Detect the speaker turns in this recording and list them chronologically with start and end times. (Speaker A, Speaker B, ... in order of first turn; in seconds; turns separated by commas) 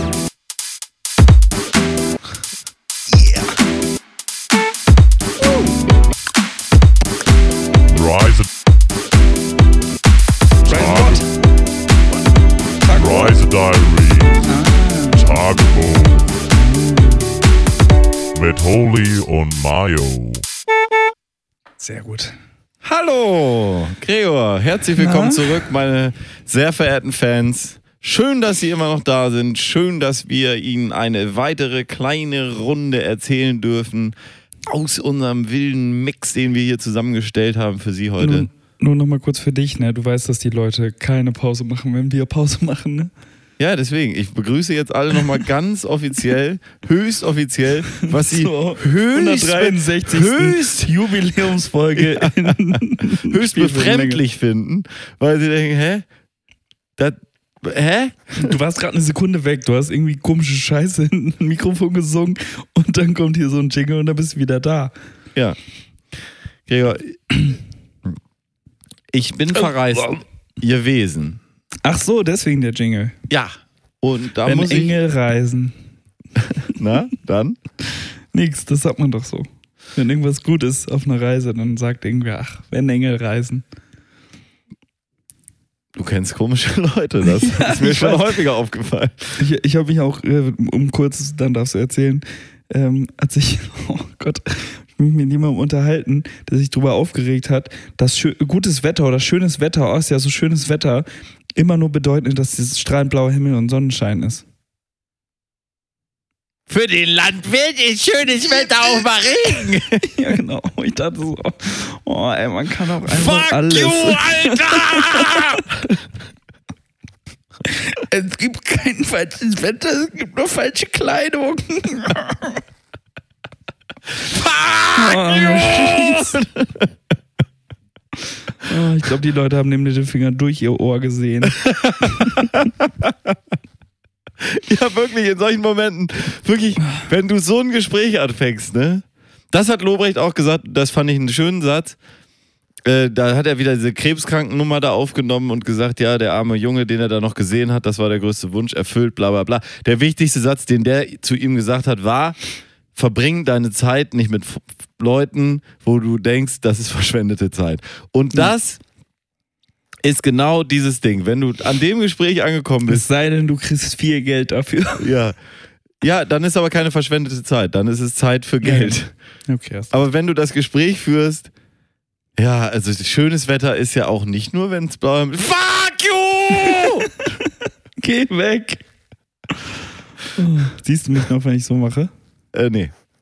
Speaker A: 7.9-8.5, Speaker A: 10.7-11.2, Speaker B: 10.7-11.2, Speaker B: 12.8-13.3, Speaker A: 12.9-14.5, Speaker B: 14.4-15.4, Speaker A: 15.1-16.4, Speaker B: 16.5-17.2, Speaker A: 18.3-20.4, Speaker B: 21.8-22.3, Speaker C: 22.8-34.1, Speaker B: 25.0-25.6, Speaker C: 34.7-38.5, Speaker B: 38.2-43.1, Speaker C: 43.6-50.9, Speaker B: 48.1-54.2, Speaker C: 51.9-56.0, Speaker C: 57.0-58.5, Speaker B: 58.3-64.9, Speaker C: 66.7-67.2, Speaker C: 69.1-71.4, Speaker B: 69.9-70.2, Speaker B: 71.8-73.1, Speaker C: 73.3-74.9, Speaker B: 74.4-75.7, Speaker C: 76.5-77.6, Speaker B: 78.3-83.6, Speaker C: 85.9-89.4, Speaker B: 87.3-88.3, Speaker B: 89.4-104.4, Speaker C: 106.7-110.1, Speaker B: 110.0-115.6, Speaker C: 113.1-115.7, Speaker B: 117.7-122.6, Speaker C: 124.2-126.9, Speaker B: 124.9-126.4, Speaker B: 128.6-132.4, Speaker C: 131.6-133.3, Speaker C: 134.4-142.0, Speaker C: 142.8-152.4, Speaker C: 152.9-158.8, Speaker C: 160.0-163.1, Speaker B: 162.9-165.1, Speaker C: 165.0-165.3, Speaker C: 166.0-169.1, Speaker B: 168.6-169.9, Speaker C: 169.9-171.5, Speaker C: 172.4-177.1, Speaker B: 178.0-178.8, Speaker B: 180.3-182.1, Speaker C: 182.5-182.9